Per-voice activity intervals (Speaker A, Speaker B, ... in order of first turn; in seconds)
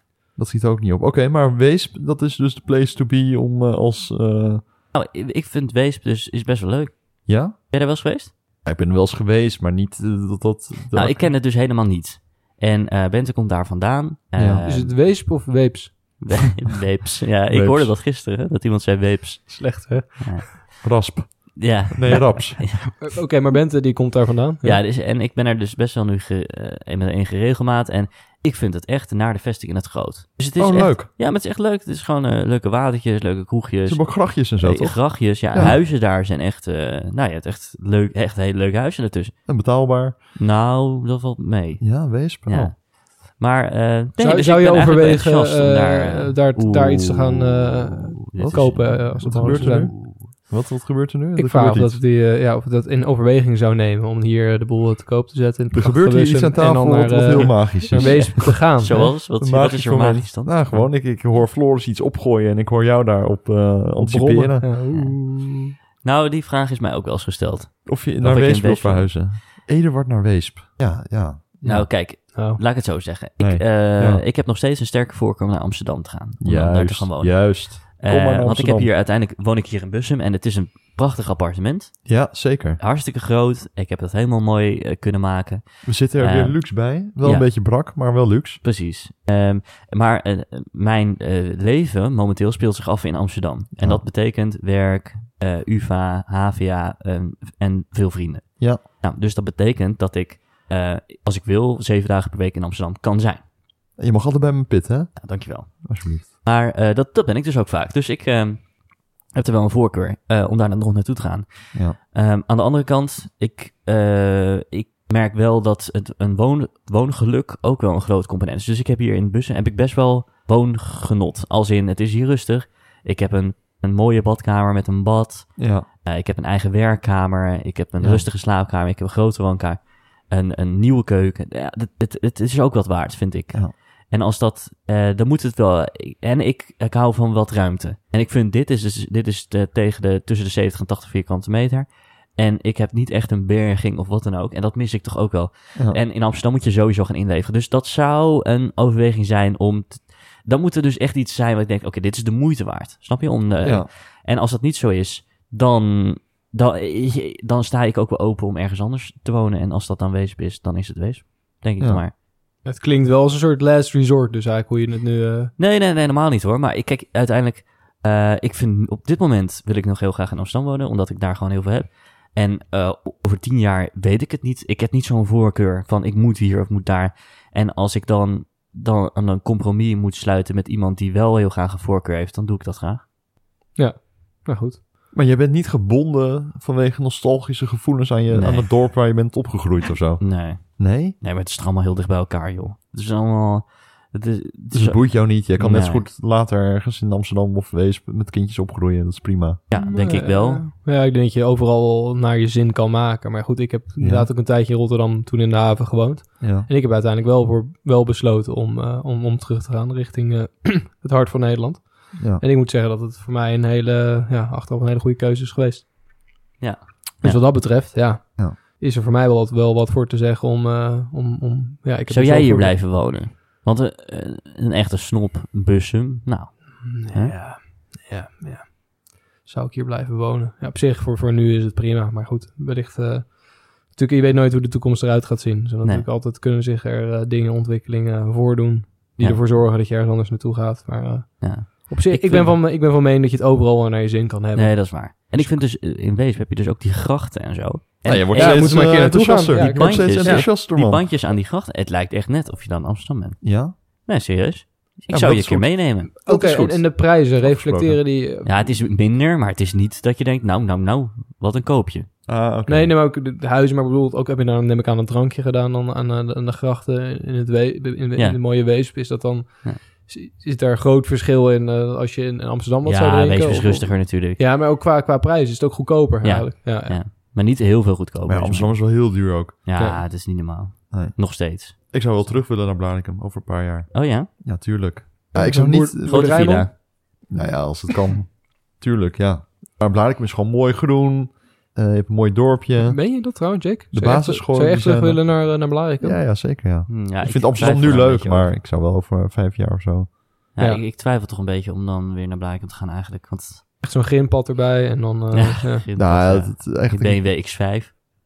Speaker A: 0.4-4.6, 7.3-7.6, 8.6-11.3, 14.4-14.7, 17.5-18.0, 20.8-22.9, 30.6-31.1, 33.9-35.8, 39.5-40.3, 41.8-42.7, 48.4-52.0, 55.7-64.7, 67.9-72.0, 73.4-74.2, 76.4-78.9, 82.0-82.8, 85.8-88.6, 93.8-94.1, 104.0-106.3, 125.6-125.9, 128.0-128.3, 145.8-146.0, 153.6-153.9, 185.1-191.2, 194.7-199.7, 204.0-204.3, 206.4-206.7, 212.2-212.4, 248.1-251.1, 253.4-253.8, 255.1-258.0, 262.3-262.9, 278.3-279.6, 280.9-293.4, 293.9-300.2, 305.9-307.2
Speaker B: 4.9-8.3, 10.9-15.0, 16.2-23.0, 24.6-39.5, 40.4-50.3, 57.3-60.9, 64.9-65.2, 66.0-69.2, 71.7-82.3, 82.8-87.5, 88.6-103.5, 105.2-162.1, 165.6-183.0, 188.3-188.7, 190.2-196.1, 199.7-200.7, 216.6-217.4, 222.1-227.4, 239.2-239.4, 241.4-242.6, 244.6-256.1, 258.4-262.1, 268.2-268.9, 272.9-274.4, 276.2-282.2, 283.9-284.3, 286.0-286.7, 296.9-298.5, 300.5-303.6, 305.3-307.9
Speaker C: 14.7-16.5, 19.5-20.5, 23.0-24.8, 44.2-50.0, 51.4-59.1, 64.0-65.7, 71.6-72.6, 162.6-165.5, 183.8-184.8, 199.8-215.9, 217.2-222.8, 226.8-245.6, 248.3-250.5, 256.2-258.8, 262.7-277.0, 279.8-280.0, 285.3-286.7, 292.8-296.3, 303.8-305.9